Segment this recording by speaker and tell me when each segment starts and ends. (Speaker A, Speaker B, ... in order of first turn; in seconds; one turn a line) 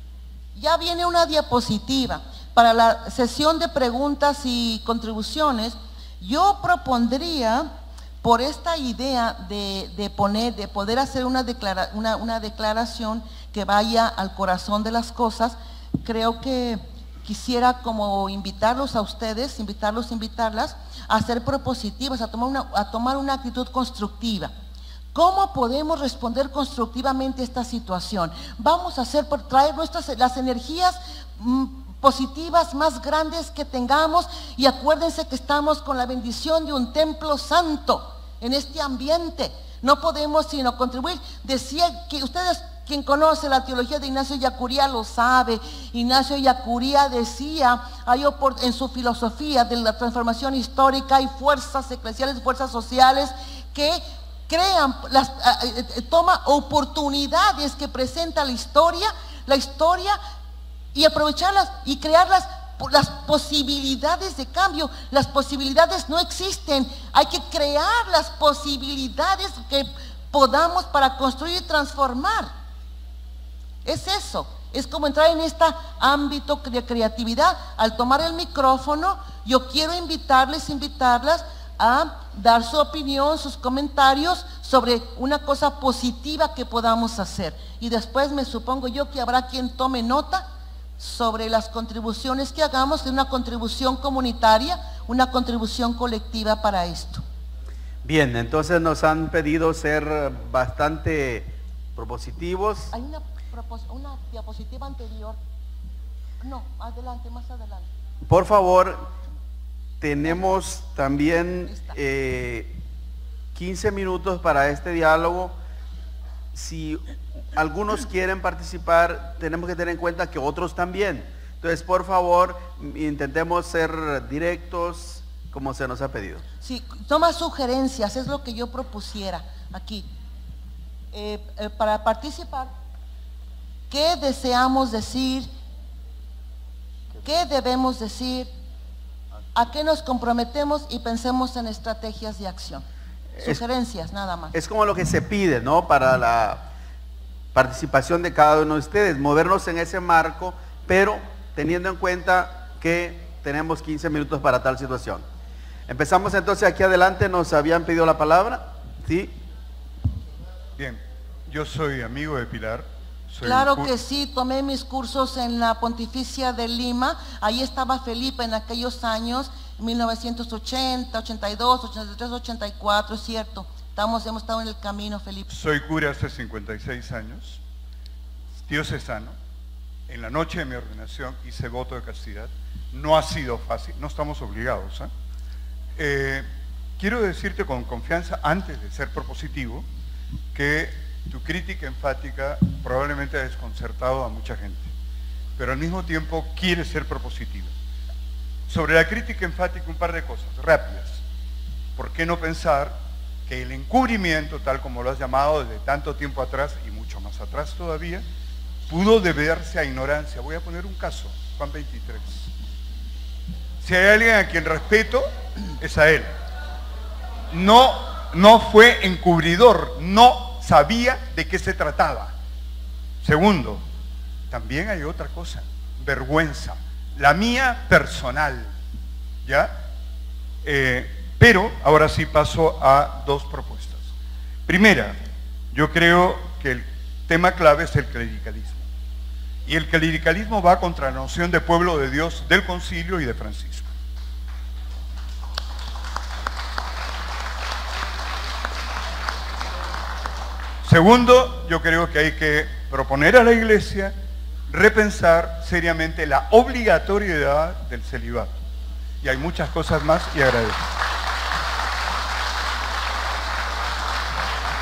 Speaker A: 0.5-7.7
Speaker A: 8.2-24.5
Speaker A: 25.1-60.2
Speaker A: 60.9-72.5
Speaker A: 73.8-90.5
Speaker A: 91.0-97.2
Speaker B: 98.0-102.9
Speaker A: 102.9-105.4
Speaker A: 106.4-107.8
Speaker B: 108.2-109.1
Speaker B: 110.0-112.8
Speaker A: 111.7-111.9
Speaker B: 113.5-115.5
Speaker B: 116.5-126.4
Speaker A: 126.6-130.1
Speaker A: 131.1-132.7
Speaker A: 133.9-135.5
Speaker A: 137.2-138.5
Speaker A: 139.5-142.8
Speaker B: 143.3-143.6
Speaker A: 143.4-144.5
Speaker B: 144.5-146.7
Speaker B: 147.5-155.2
Speaker B: 155.9-159.3
Speaker C: 160.8-163.9
Speaker A: 163.4-175.5
Speaker C: 175.5-177.6
Speaker C: 178.7-179.3
Speaker C: 180.1-185.1
Speaker C: 186.0-189.8
Speaker C: 190.5-194.9
Speaker C: 195.6-197.7
Speaker C: 198.7-201.2
Speaker C: 202.0-208.2
Speaker C: 208.9-212.5
Speaker C: 213.8-215.3
Speaker C: 215.8-216.3
Speaker C: 217.5-222.3
Speaker C: 223.2-223.8
Speaker C: 224.5-228.7
Speaker C: 229.4-229.8
Speaker C: 230.6-234.1
Speaker C: 234.7-235.2
Speaker C: 235.7-238.8
Speaker C: 239.7-243.9
Speaker C: 250.8-254.1
Speaker C: 254.7-258.6
Speaker C: 259.2-260.9